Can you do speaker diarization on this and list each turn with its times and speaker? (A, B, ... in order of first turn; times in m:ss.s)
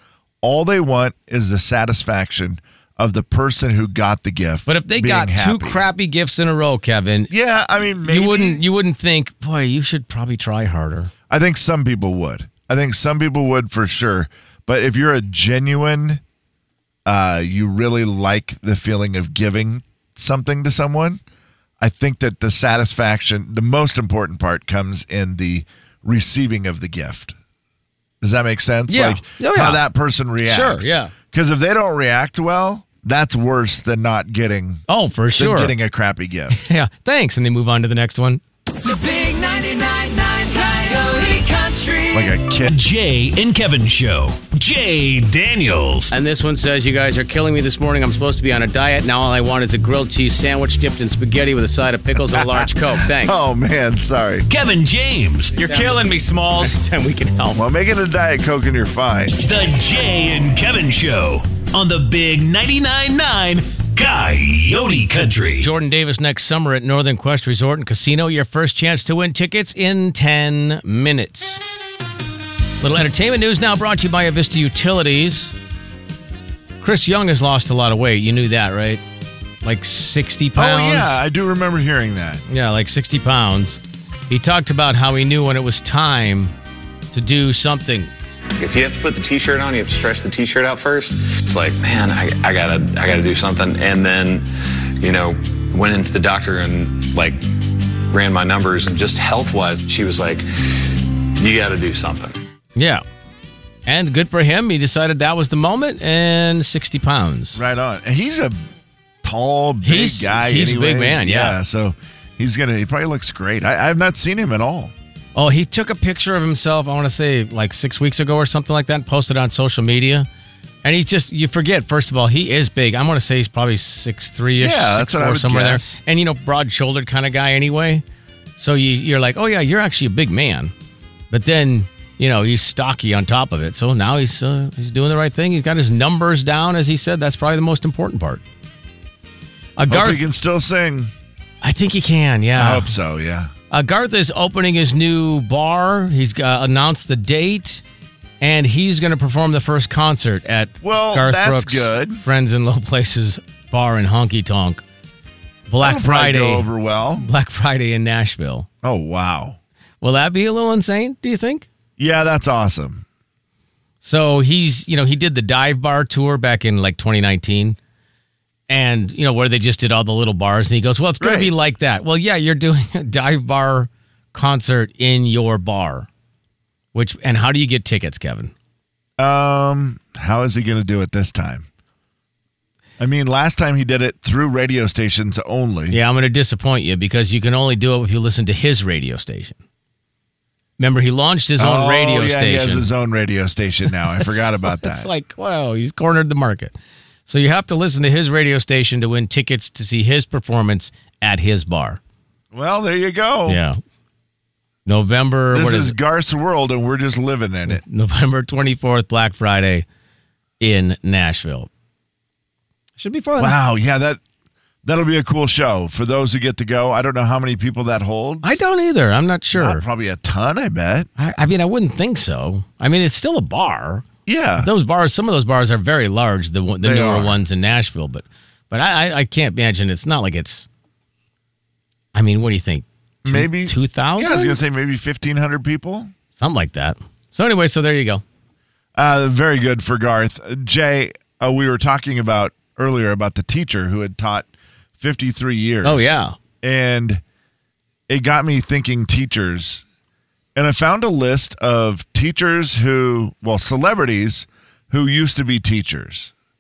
0:00.4-0:05.8 A
0:04.7-0:07.3 B
0:07.3-0:08.6 A
0:08.0-0:11.1 B
0:11.3-0:16.2 A
0:17.1-0:21.2 A
0:21.8-0:27.3 A
0:28.2-0:34.8 A
0:28.9-0:29.8 B
0:30.4-0:31.1 B
0:34.9-0:35.8 B
0:35.4-0:36.6 A
0:36.5-0:38.4 B
0:38.8-0:42.3 C
0:42.1-0:42.7 A
0:42.7-0:46.1 D
0:46.1-0:53.5 B
0:52.2-0:54.5 A
0:54.5-0:55.6 D
0:55.6-0:57.6 B
0:55.7-0:56.0 A
0:57.5-0:59.4 A
0:59.4-1:05.7 D
1:05.6-1:11.6 B
1:12.8-1:15.5 B
1:16.8-1:19.0 B
1:19.6-1:21.2 B
1:20.6-1:22.4 A
1:22.5-1:23.8 B
1:24.3-1:26.5 B
1:27.1-1:28.1 B
1:28.6-1:42.4 E
1:42.8-1:43.0 B
1:43.9-1:47.6 B
1:47.6-1:48.6 A
1:49.2-1:54.9 A
1:49.8-1:51.6 B
1:55.4-2:00.3 B
2:00.8-2:08.0 B
2:04.6-2:05.9 A
2:08.6-2:10.7 B
2:11.3-2:18.4 B
2:19.8-2:20.2 B
2:19.9-2:21.1 A
2:21.6-2:22.9 B
2:22.6-2:23.5 A
2:23.7-2:27.8 B
2:28.4-2:34.8 B
2:30.8-2:32.2 A
2:35.7-2:38.7 B
2:35.8-2:37.3 A
2:38.8-2:39.6 A
2:40.0-2:41.7 B
2:42.0-2:43.0 A
2:44.0-2:47.8 B
2:48.7-2:56.1 B
2:51.2-2:51.5 A
2:56.9-2:58.5 B
2:59.2-3:01.7 A
3:03.0-3:06.0 A
3:05.9-3:09.6 B
3:10.8-3:12.9 B
3:11.6-3:15.1 A
3:14.2-3:16.7 B
3:17.3-3:22.0 B
3:22.5-3:23.6 A
3:23.5-3:23.8 B
3:24.9-3:26.0 B
3:25.5-3:27.8 A
3:27.7-3:29.9 B
3:30.6-3:31.7 B
3:33.0-3:33.5 B
3:33.4-3:34.2 A
3:34.8-3:38.6 A
3:38.4-3:39.8 B
3:39.5-3:41.1 A
3:41.2-3:44.1 B
3:44.3-3:44.7 A
3:44.6-3:50.7 B
3:46.8-3:47.4 A
3:52.1-3:54.6 B
3:53.2-3:56.1 A
3:56.4-3:58.2 B
3:59.0-4:04.5 A
4:05.0-4:07.2 A
4:05.8-4:06.4 B
4:08.1-4:09.8 A
4:10.6-4:16.3 A